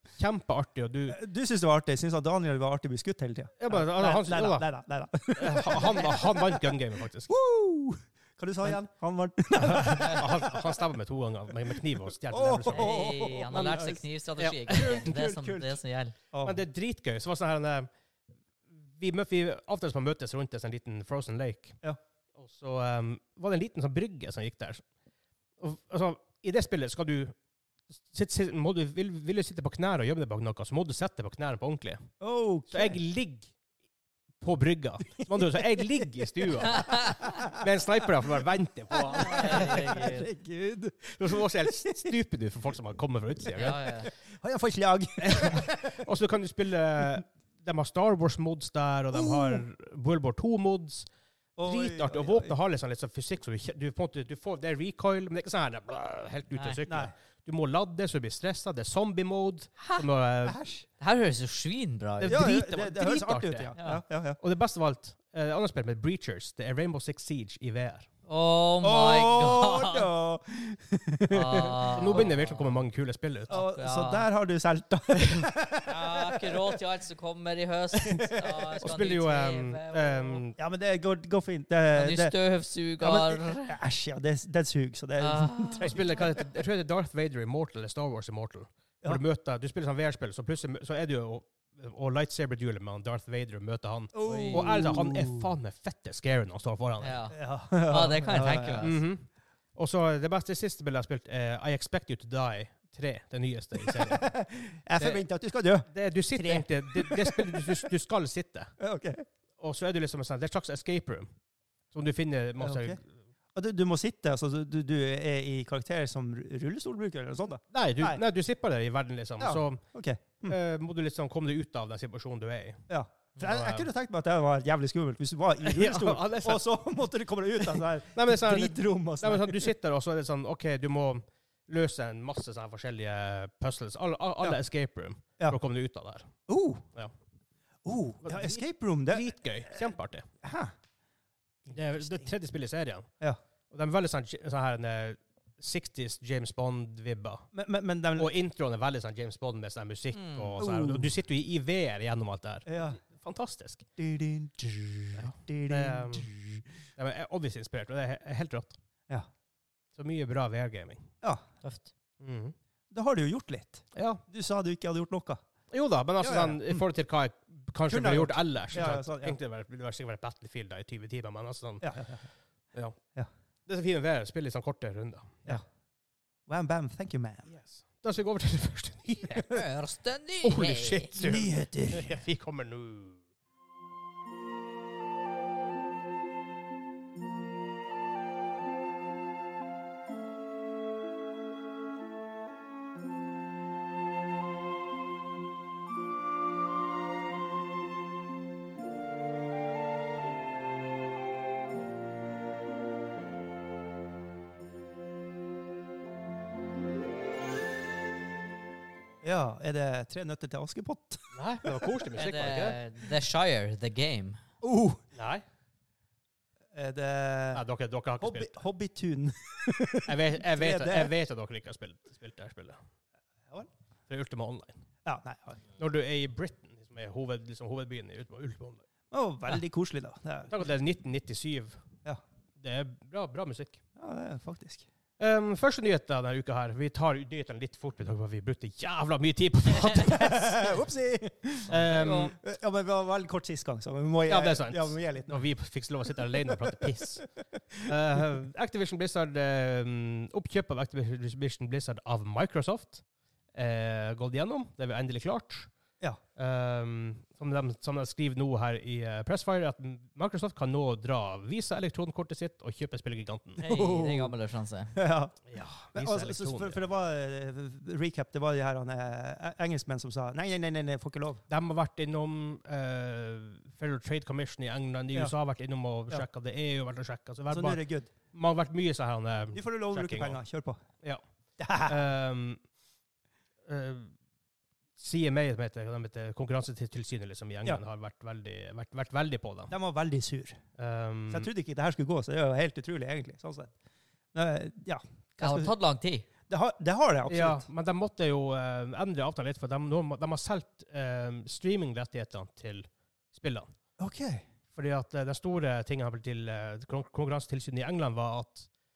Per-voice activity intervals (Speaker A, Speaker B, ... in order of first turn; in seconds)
Speaker A: 0.1-1.2, 3.6-4.7, 5.3-7.3, 9.6-13.0, 13.5-15.1, 16.4-17.9, 18.9-21.8, 22.4-24.8, 25.6-27.3, 28.0-32.1, 32.7-33.5, 34.4-39.9, 41.2-44.0, 45.2-51.1, 51.6-60.6, 62.2-63.7, 64.4-68.1, 72.0-73.6, 78.8-80.5, 85.8-97.2, 98.8-104.3, 105.9-108.7, 109.6-111.3, 111.9-113.0, 117.7-119.8, 120.4-122.8, 123.4-123.9, 125.6-126.7, 127.6-136.3, 138.2-140.3, 141.7-143.1, 143.7-147.5, 148.2-153.8, 155.2-156.3, 157.0-158.8, 159.9-161.1, 162.2-162.5, 163.9-164.2, 165.7-171.9, 173.7-175.6, 177.5-179.6, 180.4-183.2, 211.3-212.8, 215.1-215.4, 217.5-218.5, 220.1-222.8, 224.1-224.8, 225.8-228.8, 230.5-231.8, 232.6-233.8, 235.2-240.8, 241.7-242.3, 244.3-247.3, 247.8-253.0, 253.5-255.7, 256.4-263.6, 265.5-266.8, 271.5-277.8, 278.3-280.4, 281.8-282.6, 283.6-284.1, 285.0-289.7, 290.8-291.5, 297.3-303.7, 304.7-308.7
Speaker B: 1.1-6.7, 7.3-10.8, 12.3-14.0, 14.7-15.8, 16.3-16.6, 32.2-33.0, 35.3-37.6, 38.9-42.1, 44.0-46.0, 49.1-49.6, 51.6-52.5, 56.9-57.1, 60.4-60.9, 62.3-64.4, 68.8-72.3, 73.5-76.8, 78.0-78.8, 80.6-82.3, 83.0-86.4, 94.1-95.5, 97.3-98.9, 103.8-107.8, 108.8-109.2, 112.6-113.0, 113.5-118.2, 119.4-120.6, 122.9-129.7, 136.5-136.8, 137.8-140.7, 141.7-142.3, 147.5-148.3, 150.6-151.1, 152.7-153.0, 154.0-156.6, 162.9-165.4, 166.2-166.8, 167.9-169.4, 171.8-172.2, 176.5-177.5, 181.2-182.2, 209.2-211.9, 214.6-215.0, 216.7-217.6, 218.2-221.1, 225.0-225.6, 229.1-230.5, 234.0-234.9, 239.9-245.4, 246.1-246.8, 247.6-247.9, 263.6-264.3, 264.9-265.4, 265.9-271.4, 277.5-278.1, 279.5-280.8, 281.6-282.0, 289.7-290.6, 291.3-293.7, 294.3-295.7, 296.5-297.7, 304.0-304.4
Speaker C: 12.7-16.1, 36.7-37.4, 39.2-40.3, 43.5-44.1, 59.8-60.0, 61.0-62.5, 63.8-64.0, 68.3-70.1, 71.3-72.8, 73.5-74.3, 75.8-80.4, 81.9-83.7, 85.2-86.2, 94.2-94.7, 97.0-99.0, 150.1-150.6, 161.6-161.9, 179.3-181.1, 212.1-214.4, 241.8-242.3, 263.6-264.9, 295.4-296.2